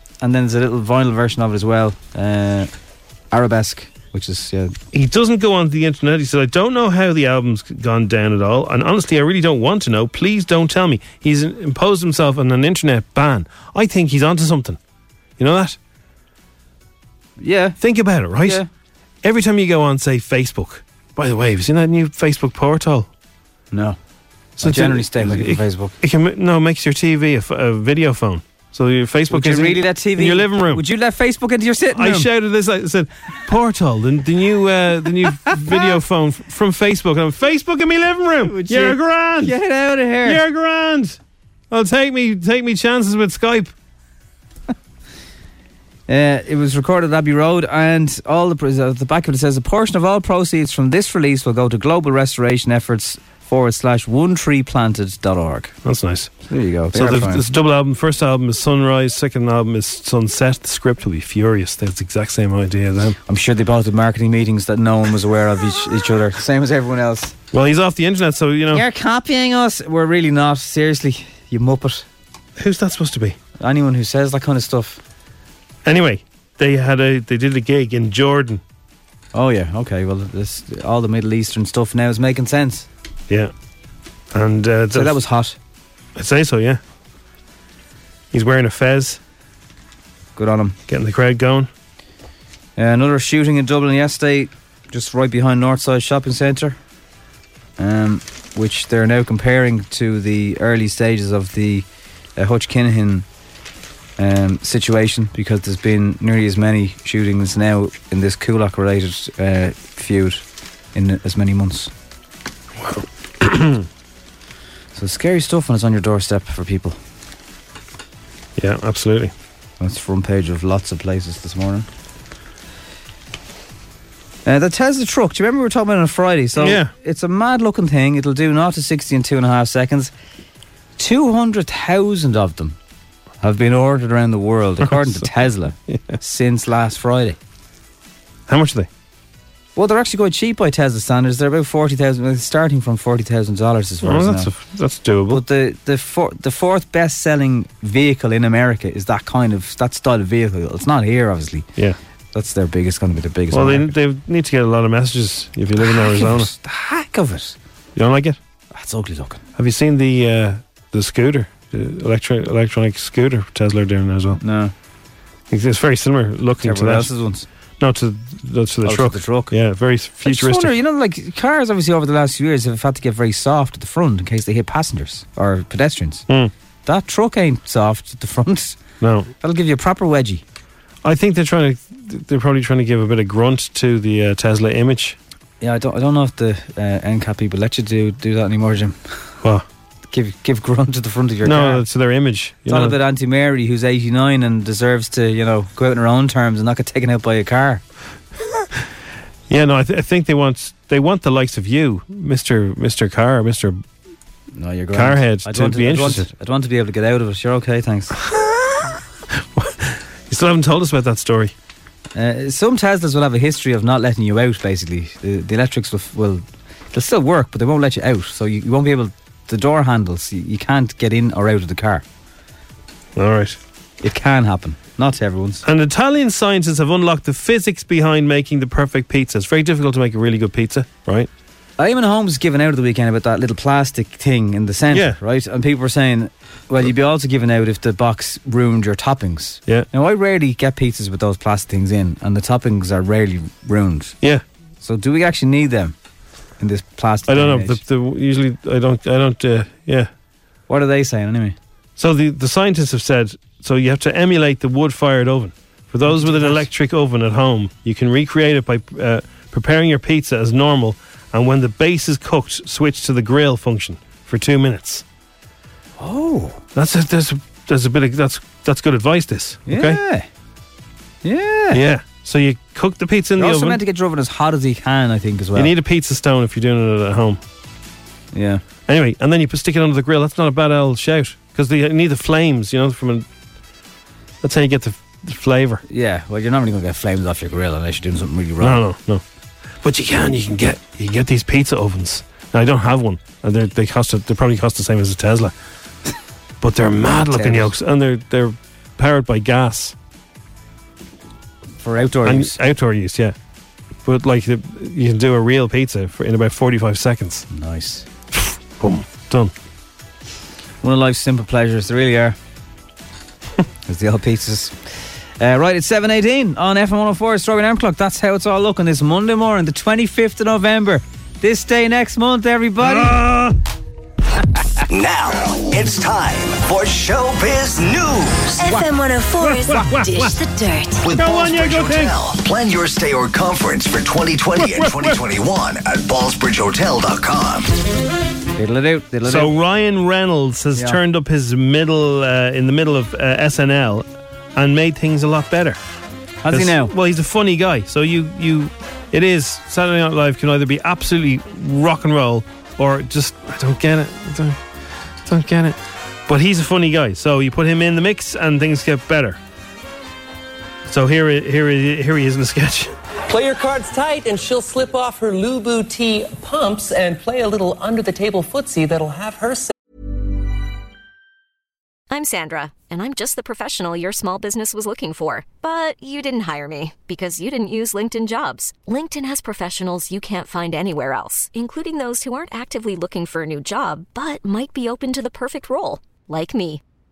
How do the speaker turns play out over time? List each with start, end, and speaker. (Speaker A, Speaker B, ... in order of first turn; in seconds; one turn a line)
Speaker A: 0.2-2.7
Speaker A: 3.3-4.7
Speaker B: 4.9-14.8
Speaker B: 15.4-15.8
Speaker A: 17.4-17.8
Speaker B: 17.8-18.6
Speaker A: 18.4-18.7
Speaker B: 19.2-23.1
Speaker A: 23.7-24.0
Speaker B: 24.6-30.8
Speaker A: 24.6-25.9
Speaker A: 29.3-32.3
Speaker B: 31.9-39.5
Speaker A: 35.4-35.8
Speaker A: 38.4-40.4
Speaker B: 40.2-41.2
Speaker B: 41.7-43.7
Speaker A: 46.1-55.7
Speaker B: 55.8-56.3
Speaker A: 56.5-57.5
Speaker B: 56.9-63.2
Speaker A: 63.2-67.3
Speaker B: 67.5-68.8
Speaker A: 68.7-72.0
Speaker B: 72.6-73.3
Speaker A: 73.6-75.0
Speaker B: 75.8-78.6
Speaker A: 79.3-82.9
Speaker B: 84.3-85.2
Speaker A: 84.9-85.6
Speaker B: 86.2-86.8
Speaker B: 88.3-89.2
Speaker A: 90.3-90.8
Speaker B: 90.9-91.7
Speaker A: 92.8-96.8
Speaker A: 97.8-101.8
Speaker A: 102.4-103.2
Speaker A: 104.2-110.4
Speaker A: 110.9-111.9
Speaker B: 112.8-113.8
Speaker A: 114.9-117.0
Speaker B: 118.6-119.3
Speaker A: 119.8-121.9
Speaker A: 124.4-130.1
Speaker B: 126.6-126.9
Speaker A: 131.0-132.8
Speaker A: 133.4-137.4
Speaker B: 134.8-135.3
Speaker B: 135.9-136.2
Speaker B: 138.5-138.9
Speaker A: 139.8-144.5
Speaker B: 144.0-145.4
Speaker A: 145.3-151.7
Speaker A: 152.3-153.9
Speaker B: 153.5-156.5
Speaker A: 155.8-157.6
Speaker B: 157.9-158.4
Speaker A: 158.7-159.4
Speaker B: 159.6-164.4
Speaker A: 164.4-164.7
Speaker B: 165.5-167.1
Speaker A: 166.6-167.4
Speaker B: 167.8-170.7
Speaker A: 168.8-169.6
Speaker A: 170.2-176.2
Speaker A: 176.8-178.8
Speaker B: 179.0-179.3
Speaker A: 179.4-180.4
Speaker B: 181.0-185.2
Speaker A: 185.6-189.2
Speaker A: 190.1-191.8
Speaker B: 191.4-193.0
Speaker A: 192.7-197.8
Speaker B: 199.5-203.8
Speaker A: 204.6-208.1
Speaker B: 204.9-206.3
Speaker B: 208.3-208.8
Speaker B: 209.6-211.5
Speaker A: 212.1-222.0
Speaker B: 223.2-223.6
Speaker A: 224.0-225.6
Speaker B: 225.6-231.3
Speaker A: 231.8-244.2
Speaker B: 234.9-235.2
Speaker A: 244.8-245.9
Speaker A: 246.6-247.8
Speaker B: 247.3-250.1
Speaker A: 250.7-251.6
Speaker B: 252.0-265.0
Speaker A: 256.1-256.6
Speaker A: 266.0-266.6
Speaker B: 266.7-270.0
Speaker A: 269.7-270.3
Speaker A: 271.2-271.8
Speaker B: 271.7-273.8
Speaker A: 273.4-275.7
Speaker B: 275.5-277.4
Speaker A: 278.3-278.6
Speaker B: 278.9-283.2
Speaker B: 284.4-285.8
Speaker A: 285.9-288.8
Speaker B: 288.6-289.2
Speaker B: 289.8-295.5
Speaker B: 296.6-299.9
Speaker A: 297.3-297.7
Speaker A: 301.8-302.6
Speaker B: 302.2-303.3
Speaker B: 304.0-307.4
Speaker A: 307.5-308.1
Speaker B: 308.3-309.5
Speaker A: 310.8-312.4
Speaker A: 313.9-323.2
Speaker B: 322.8-323.6
Speaker C: 324.9-328.7
Speaker D: 328.6-331.1
Speaker B: 329.4-330.4
Speaker C: 331.0-337.7
Speaker B: 331.1-332.2
Speaker B: 334.6-335.2
Speaker A: 338.6-339.5
Speaker B: 339.2-345.8
Speaker A: 346.4-346.9
Speaker B: 346.5-354.6
Speaker B: 355.2-359.4
Speaker B: 360.9-362.9
Speaker E: 363.3-369.7
Speaker F: 372.1-386.8